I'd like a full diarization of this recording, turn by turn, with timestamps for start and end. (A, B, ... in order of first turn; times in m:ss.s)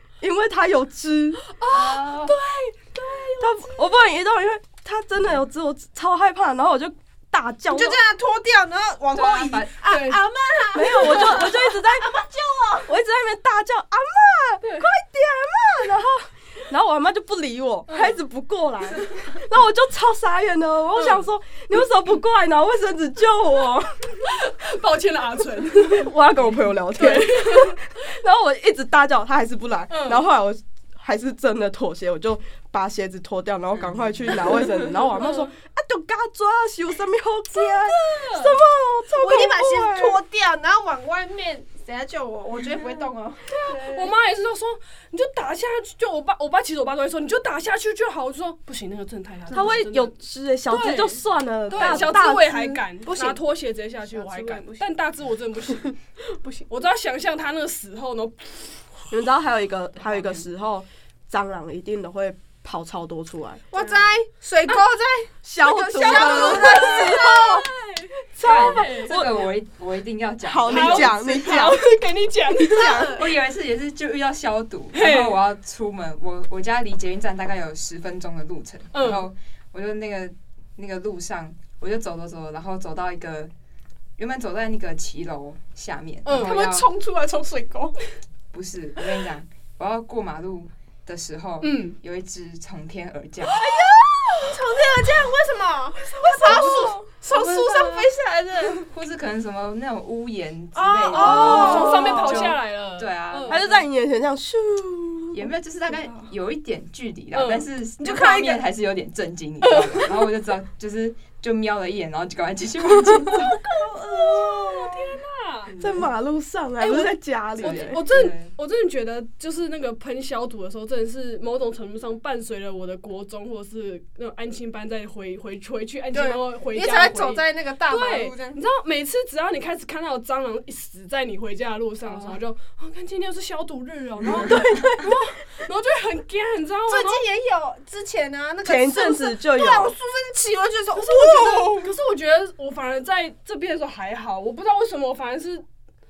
0:00.2-0:01.4 A
0:01.4-0:03.8 B
0:01.7-0:02.3 C
0:03.4-0:08.0 A
0:07.7-0:12.9 D
0:09.1-0:09.8 C
0:09.8-0:10.2 B
0:10.7-0:12.2 A
0:12.8-0:24.1 A
0:14.6-0:14.9 B
0:17.9-0:18.2 B
0:21.0-0:21.2 B
0:24.2-0:26.1 B
0:25.8-0:40.2 A
0:27.0-0:27.8 B
0:29.9-0:30.2 B
0:33.8-0:34.4 C
0:35.1-0:35.5 B
0:37.5-0:38.6 B
0:39.2-0:44.0 D
0:43.5-0:50.1 B
0:49.5-0:52.8 A
0:50.7-0:55.9 B
0:51.7-0:52.2 D
0:53.0-0:53.4 D
0:54.0-0:54.9 D
0:56.4-0:56.6 D
0:56.7-0:58.9 B
0:59.1-1:03.6 A
1:00.0-1:00.4 B
1:03.7-1:07.4 D
1:03.8-1:04.1 B
1:05.4-1:07.7 A
1:06.0-1:09.2 B
1:08.4-1:11.2 C
1:08.5-1:09.5 A
1:10.4-1:11.8 A
1:10.7-1:13.1 B
1:12.6-1:13.2 A
1:12.7-1:13.3 D
1:13.2-1:23.5 C
1:14.9-1:15.4 B
1:18.9-1:19.3 B
1:24.2-1:26.9 C
1:26.2-1:26.6 B
1:26.3-1:28.0 D
1:28.5-1:33.6 C
1:31.6-1:32.0 B
1:33.5-1:34.6 B
1:33.6-1:38.9 D
1:36.1-1:38.1 B
1:36.4-1:37.0 A
1:38.9-1:43.7 C
1:40.7-1:42.2 D
1:41.1-1:42.5 A
1:41.1-1:43.8 B
1:43.5-1:45.5 A
1:45.3-1:53.5 C
1:47.3-1:47.7 B
1:48.0-1:48.7 D
1:49.6-1:50.0 B
1:53.2-1:55.8 B
1:55.7-1:56.0 C
1:55.8-1:58.0 A
1:56.8-2:17.2 B
1:57.6-1:58.5 C
2:06.1-2:08.6 D
2:12.0-2:12.4 C
2:14.4-2:14.6 A
2:14.5-2:14.9 C
2:16.9-2:21.9 D
2:18.6-2:19.9 A
2:21.0-2:25.6 B